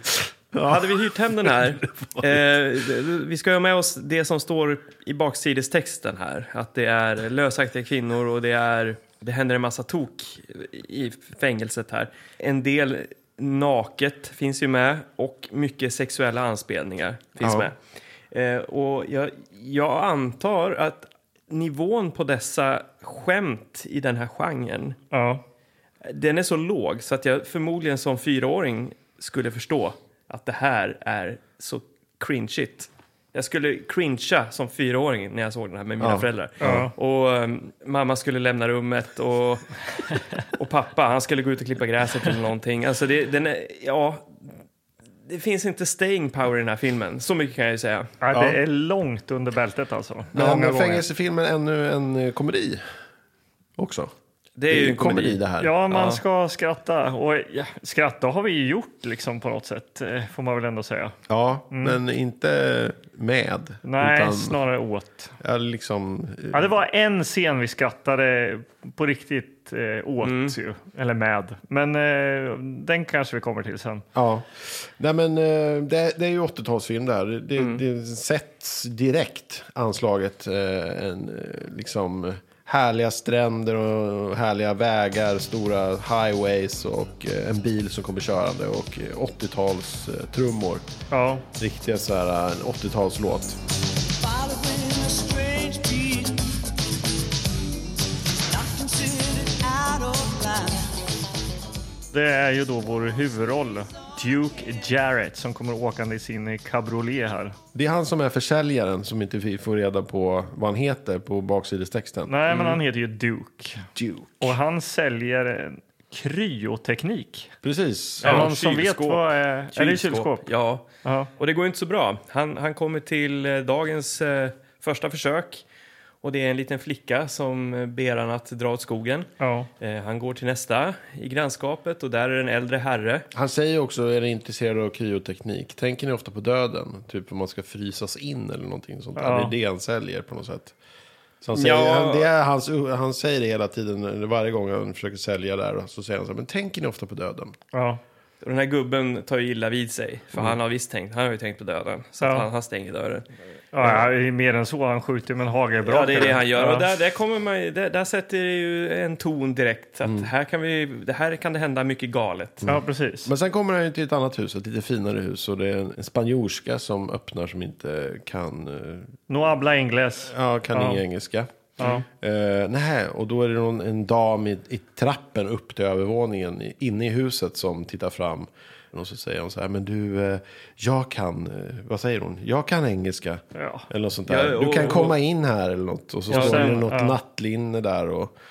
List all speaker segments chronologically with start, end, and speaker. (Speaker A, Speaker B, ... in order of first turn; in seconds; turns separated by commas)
Speaker A: 0.5-2.3, Speaker B: 0.6-17.8, Speaker A: 17.4-17.7, Speaker B: 18.3-25.0, Speaker C: 25.1-25.4, Speaker B: 26.0-39.6, Speaker A: 36.0-36.9, Speaker C: 36.6-36.9, Speaker B: 40.4-44.5, Speaker B: 45.3-48.1, Speaker C: 48.2-51.0, Speaker A: 48.3-48.6, Speaker A: 50.3-52.8, Speaker A: 53.8-54.1, Speaker B: 54.6-55.4, Speaker A: 54.7-55.7, Speaker C: 55.6-61.2, Speaker B: 55.9-56.2, Speaker A: 61.3-64.6, Speaker C: 61.7-62.0, Speaker C: 63.8-65.3, Speaker A: 65.4-66.7, Speaker C: 66.5-74.1, Speaker B: 70.2-70.6, Speaker A: 74.2-90.8, Speaker C: 91.1-91.5, Speaker A: 91.6-93.6, Speaker D: 94.2-96.5, Speaker D: 98.5-100.8, Speaker C: 102.1-107.6, Speaker A: 107.7-112.3, Speaker C: 112.3-113.9, Speaker B: 112.5-112.8, Speaker A: 114.0-114.6, Speaker C: 114.4-117.5, Speaker A: 117.6-118.5, Speaker B: 118.2-120.9, Speaker C: 118.2-120.5, Speaker C: 121.0-121.3, Speaker B: 121.4-125.6, Speaker B: 126.2-129.3, Speaker C: 129.4-129.7, Speaker B: 129.8-133.3, Speaker A: 133.3-140.8, Speaker C: 139.2-139.5, Speaker A: 141.4-147.6, Speaker B: 141.5-142.3, Speaker C: 147.7-148.0, Speaker B: 148.4-153.2, Speaker C: 152.2-152.5, Speaker C: 153.7-156.9, Speaker B: 155.8-162.7, Speaker A: 160.0-160.3, Speaker A: 162.6-169.2, Speaker C: 162.7-163.3, Speaker C: 169.3-171.0, Speaker A: 170.2-188.3, Speaker C: 183.6-183.8, Speaker B: 184.3-185.2, Speaker C: 186.3-187.2, Speaker B: 186.3-186.7